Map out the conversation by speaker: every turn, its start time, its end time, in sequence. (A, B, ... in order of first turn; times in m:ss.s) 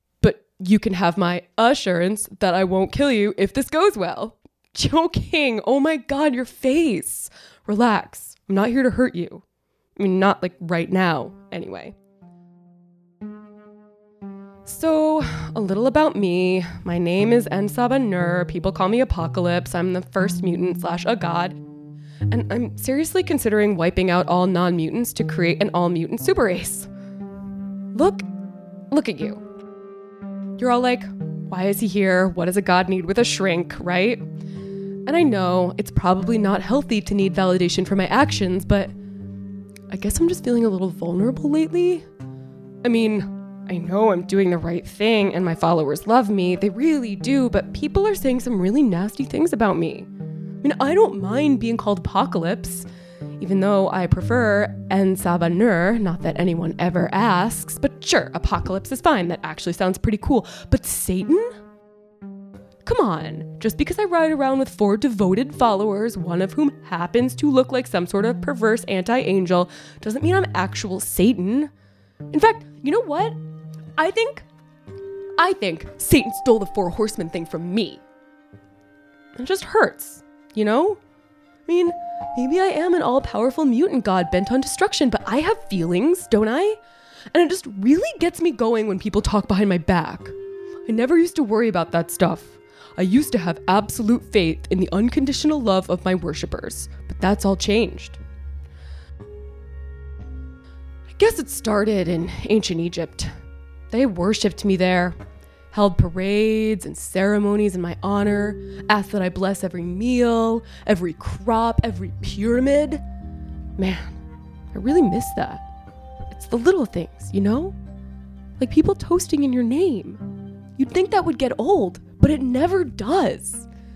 0:00.2-0:09.4 A
0:10.0-0:12.0 A
0:14.6-0:21.6 A
0:22.3-0:26.9 A
0:27.9-0:28.3 A
0:28.9-0:29.4 A
0:30.6-0:34.2 A
0:35.1-0:38.9 A
0:39.9-0:42.1 A
0:42.8-0:50.1 A
0:50.6-0:52.9 A
0:53.4-1:01.5 A
1:02.8-1:11.7 A
1:12.3-1:13.4 A
1:14.0-1:14.5 A
1:15.4-1:18.0 A
1:19.4-1:21.0 A
1:21.7-1:26.8 A
1:27.3-1:30.4 A
1:30.9-1:38.2 A
1:41.1-1:43.3 A
1:43.9-1:45.2 A
1:45.7-1:53.0 A
1:53.8-1:54.2 A
1:54.7-1:55.6 A
1:56.3-1:57.8 A
1:58.6-2:00.2 A
2:00.8-2:03.7 A